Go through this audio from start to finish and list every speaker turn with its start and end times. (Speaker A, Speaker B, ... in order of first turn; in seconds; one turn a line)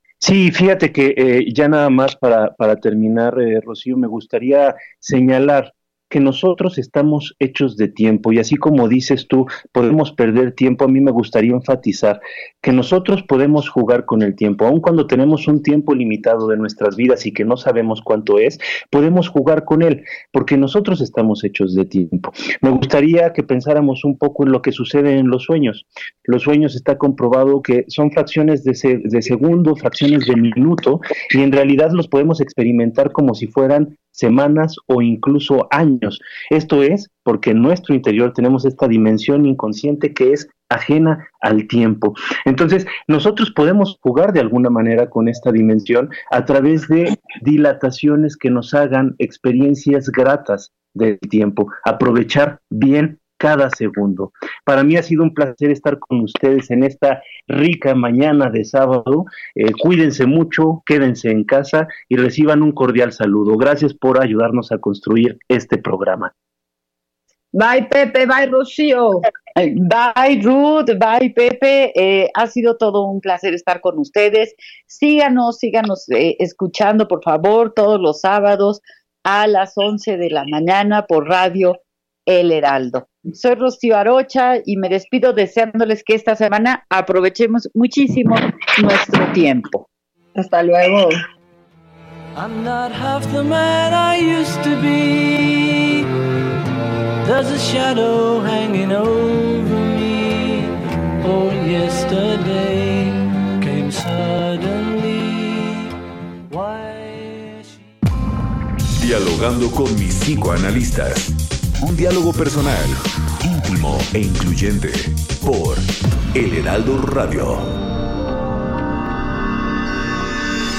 Speaker A: 0.2-66.3
Speaker B: 67.5-69.2
Speaker C: 69.6-89.8
Speaker B: 90.3-91.2
Speaker D: 92.3-96.0
Speaker D: 97.2-105.8
Speaker D: 106.5-107.8
Speaker E: 109.0-117.7